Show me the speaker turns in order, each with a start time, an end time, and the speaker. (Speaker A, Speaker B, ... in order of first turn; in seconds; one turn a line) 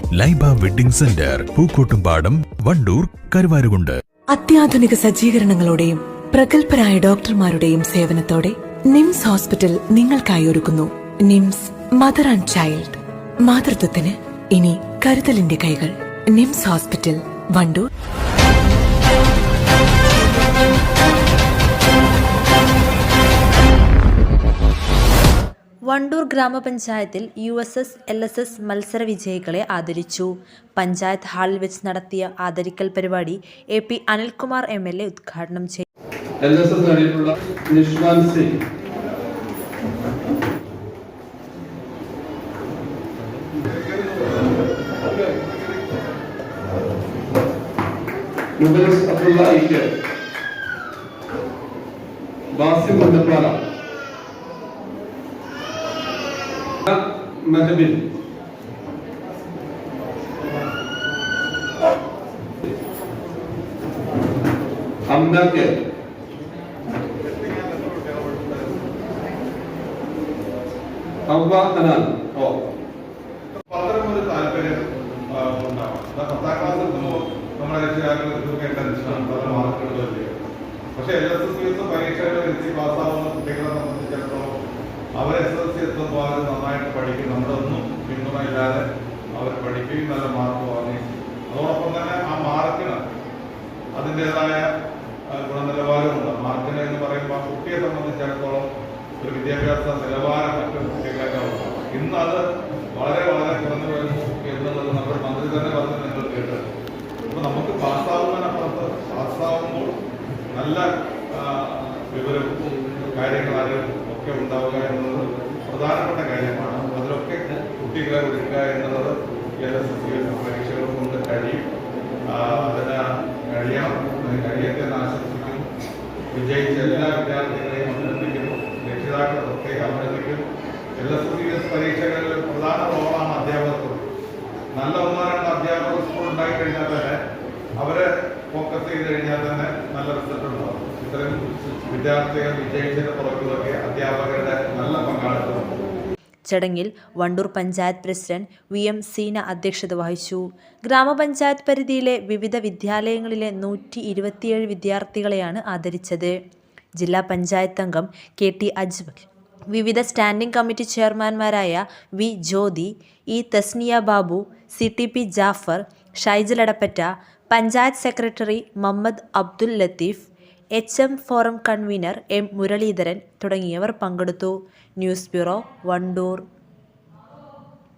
Speaker A: 0.2-4.0
Speaker B: 4.3-17.9
Speaker C: 25.9-35.9
Speaker D: 36.4-38.6
Speaker E: 43.7-44.3
Speaker D: 48.6-49.9
Speaker D: 52.5-53.6
Speaker D: 56.9-58.0
Speaker D: 65.1-65.7
Speaker E: 67.2-68.9
Speaker D: 71.3-72.6
Speaker E: 73.5-80.3
Speaker E: 81.0-84.5
Speaker E: 85.2-88.8
Speaker E: 89.3-93.0
Speaker E: 94.0-94.7
Speaker E: 95.3-98.7
Speaker E: 99.2-102.4
Speaker E: 102.9-106.7
Speaker E: 107.3-110.0
Speaker E: 110.5-121.7
Speaker E: 122.3-125.7
Speaker E: 126.3-130.4
Speaker E: 131.0-134.1
Speaker E: 134.8-137.2
Speaker E: 137.8-145.7
Speaker C: 146.5-156.4
Speaker C: 157.0-176.4